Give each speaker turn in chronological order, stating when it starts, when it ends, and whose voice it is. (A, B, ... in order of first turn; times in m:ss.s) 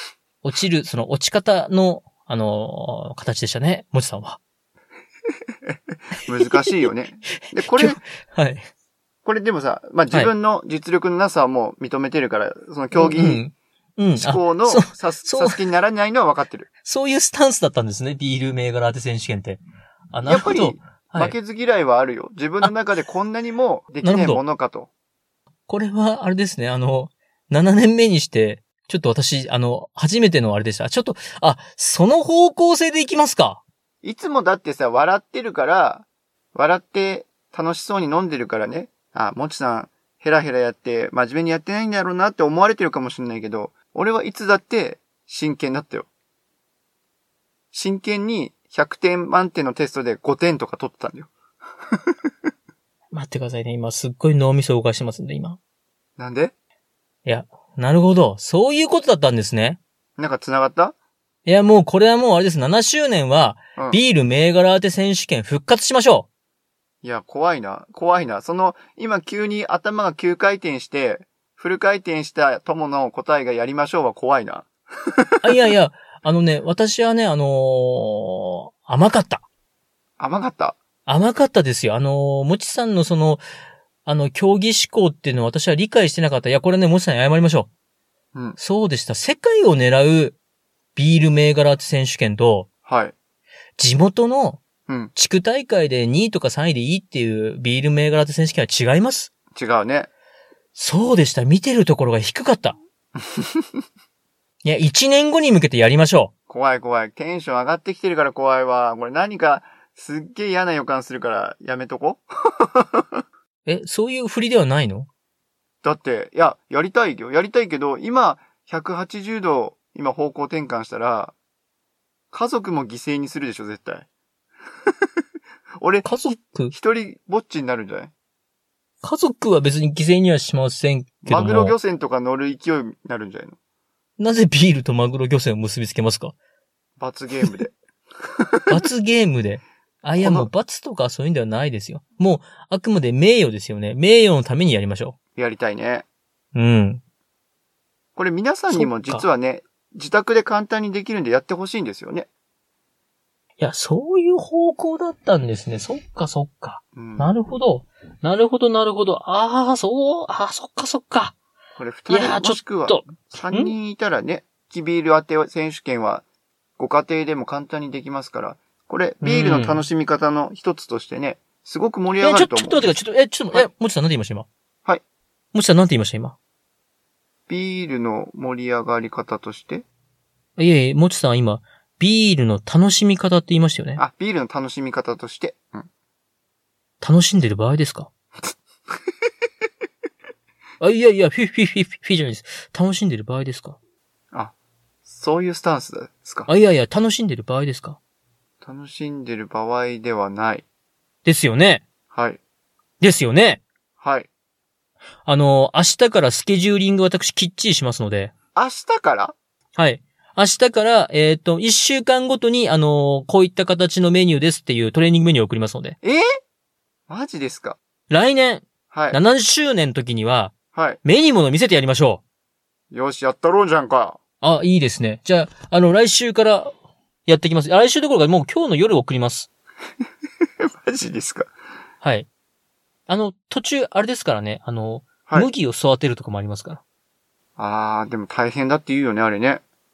0:00.4-0:04.4 A
0:05.7-0:08.0 B
0:07.6-0:08.7 A
0:09.2-0:13.4 B
0:12.9-0:15.6 A
0:14.2-0:16.7 B
0:16.8-0:21.3 A
0:20.2-0:24.9 B
0:24.0-0:24.4 A
0:25.7-0:33.6 A
0:34.0-0:46.1 B
0:47.7-0:51.3 B
0:53.1-0:55.6 A
0:56.2-0:56.5 B
0:57.2-0:59.8 A
1:00.2-1:00.9 B
1:01.4-1:06.3 A
1:07.0-1:15.4 B
1:15.4-1:19.4 A
1:20.2-1:20.8 B
1:21.0-1:23.4 A
1:24.0-1:27.7 A
1:28.6-1:30.4 A
1:31.0-1:32.7 A
1:32.8-1:33.1 B
1:33.8-1:34.6 A
1:35.1-1:39.3 A
1:39.5-1:40.1 B
1:40.7-1:42.8 A
1:43.2-1:43.7 B
1:44.6-1:46.3 A
1:46.5-1:53.2 B
1:53.6-1:55.1 A
1:55.8-2:01.3 B
2:02.3-2:04.1 B
2:05.8-2:06.1 B
2:06.0-2:06.7 A
2:06.7-2:08.1 B
2:09.0-2:11.8 A
2:11.2-2:13.6 B
2:14.2-2:16.3 A
2:17.0-2:18.7 B
2:18.7-2:25.2 A
2:20.2-2:20.5 B
2:25.4-2:26.0 B
2:26.5-2:27.0 A
2:28.2-2:32.3 B
2:28.7-2:29.2 A
2:33.6-2:41.4 A
2:37.0-2:37.3 B
2:41.8-2:46.2 B
2:42.1-2:43.7 A
2:46.8-2:53.0 B
2:49.2-2:49.8 A
2:52.2-2:54.5 A
2:55.5-2:56.4 A
2:57.5-2:59.8 B
3:00.6-3:04.0 A
3:04.0-3:05.9 B
3:07.0-3:08.1 A
3:10.8-3:13.8 A
3:15.0-3:16.5 B
3:16.5-3:18.0 A
3:18.6-3:20.6 B
3:21.2-3:21.8 A
3:22.1-3:22.4 B
3:23.0-3:23.6 A
3:24.0-3:24.3 B
3:25.2-3:28.3 A
3:28.5-3:29.3 B
3:29.8-3:36.0 A
3:36.0-3:36.4 B
3:37.1-3:37.8 B
3:38.1-3:42.2 A
3:38.9-3:39.2 B
3:40.7-3:41.0 B
3:42.9-3:44.2 B
3:44.4-3:46.7 A
3:47.3-3:49.5 A
3:50.6-3:51.5 B
3:52.0-3:52.3 A
3:53.1-3:56.8 A
3:57.6-3:59.6 B